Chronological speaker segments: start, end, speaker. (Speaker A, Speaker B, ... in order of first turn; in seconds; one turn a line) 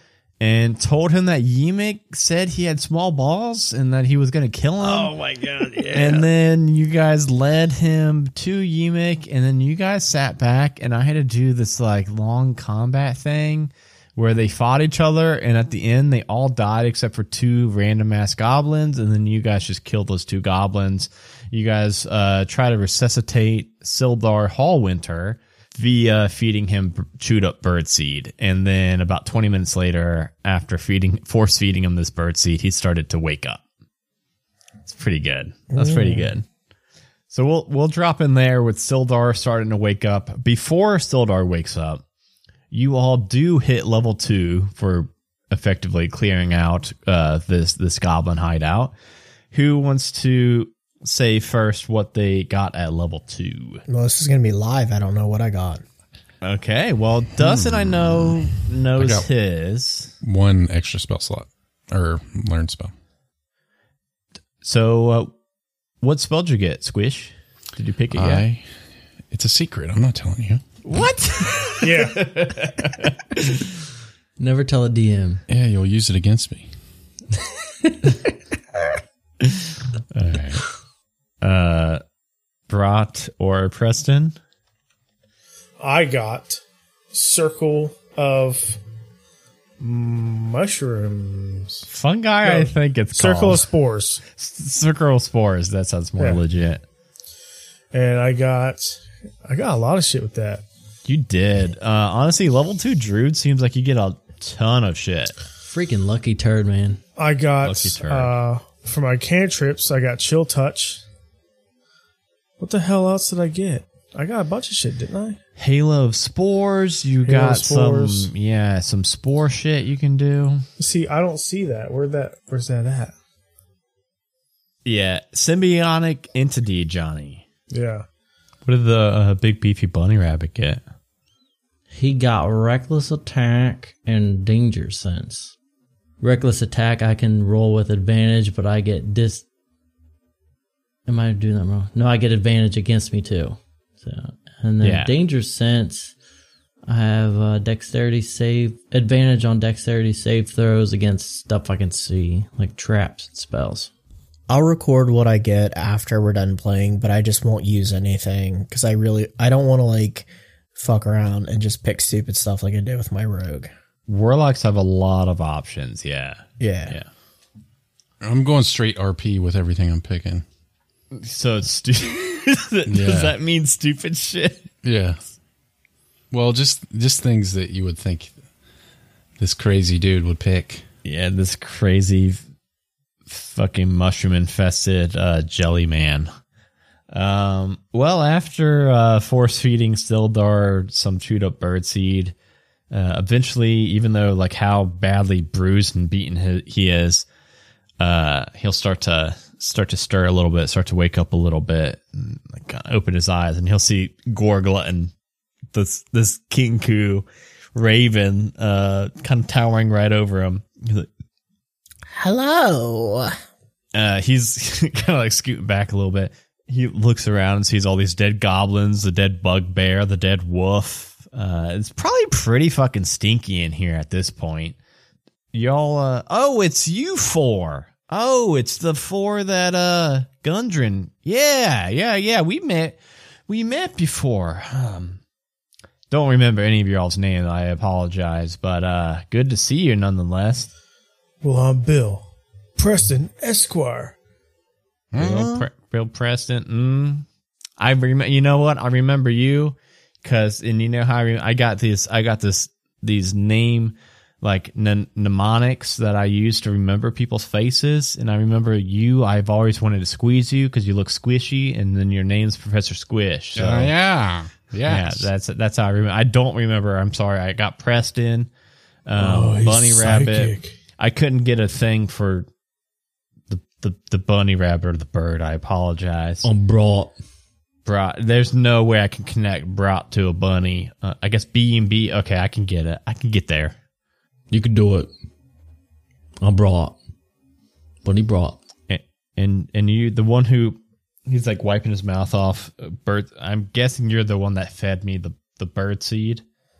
Speaker A: 0.4-5.1
Speaker B: 4.8-6.3
Speaker A: 5.9-33.6
Speaker A: 34.9-36.5
Speaker C: 35.7-36.3
Speaker A: 37.3-42.0
Speaker A: 42.7-48.9
Speaker A: 49.5-53.8
Speaker C: 53.9-55.8
Speaker A: 56.4-60.1
Speaker D: 57.4-58.4
Speaker D: 59.0-59.3
Speaker D: 60.2-62.9
Speaker A: 64.6-65.3
Speaker A: 66.0-68.5
Speaker D: 68.1-68.7
Speaker D: 69.3-70.6
Speaker A: 70.8-73.5
Speaker E: 71.8-72.3
Speaker B: 74.4-75.4
Speaker D: 75.5-76.7
Speaker A: 79.4-80.6
Speaker A: 81.4-82.0
Speaker A: 82.7-84.3
Speaker E: 85.8-86.6
Speaker E: 87.1-88.8
Speaker E: 89.8-91.9
Speaker A: 91.9-93.7
Speaker E: 92.4-94.2
Speaker A: 94.3-96.8
Speaker E: 97.9-100.6
Speaker A: 101.0-105.3
Speaker B: 105.6-107.0
Speaker E: 107.2-111.0
Speaker A: 107.6-108.3
Speaker E: 112.6-115.4
Speaker A: 115.6-120.6
Speaker E: 117.2-118.3
Speaker E: 120.8-123.1
Speaker A: 124.8-127.4
Speaker E: 127.7-128.1
Speaker A: 128.6-130.8
Speaker B: 131.9-135.5
Speaker B: 136.2-139.4
Speaker B: 141.1-146.1
Speaker A: 144.8-145.1
Speaker B: 146.9-153.9
Speaker C: 154.5-163.7
Speaker A: 164.1-167.1
Speaker C: 166.6-167.0
Speaker D: 168.2-170.4
Speaker A: 171.1-174.7
Speaker D: 172.9-173.3
Speaker D: 174.8-175.2
Speaker D: 176.3-178.3
Speaker D: 179.4-180.8
Speaker A: 181.0-182.4
Speaker A: 183.3-186.3
Speaker A: 187.1-192.3
Speaker A: 192.9-197.2
Speaker A: 198.0-205.1
Speaker A: 205.7-211.1
Speaker C: 212.1-213.3
Speaker A: 213.9-224.8
Speaker A: 225.5-235.2
Speaker A: 236.1-240.7
Speaker E: 241.4-244.1
Speaker D: 245.1-245.7
Speaker A: 245.2-247.2
Speaker A: 247.8-263.9
Speaker D: 263.5-265.3
Speaker A: 264.9-268.5
Speaker A: 269.1-272.5
Speaker E: 269.2-270.7
Speaker A: 273.5-276.5
Speaker B: 276.4-277.1
Speaker A: 277.8-283.8
Speaker B: 284.5-285.1
Speaker B: 286.4-287.0
Speaker B: 288.0-288.6
Speaker A: 288.9-296.4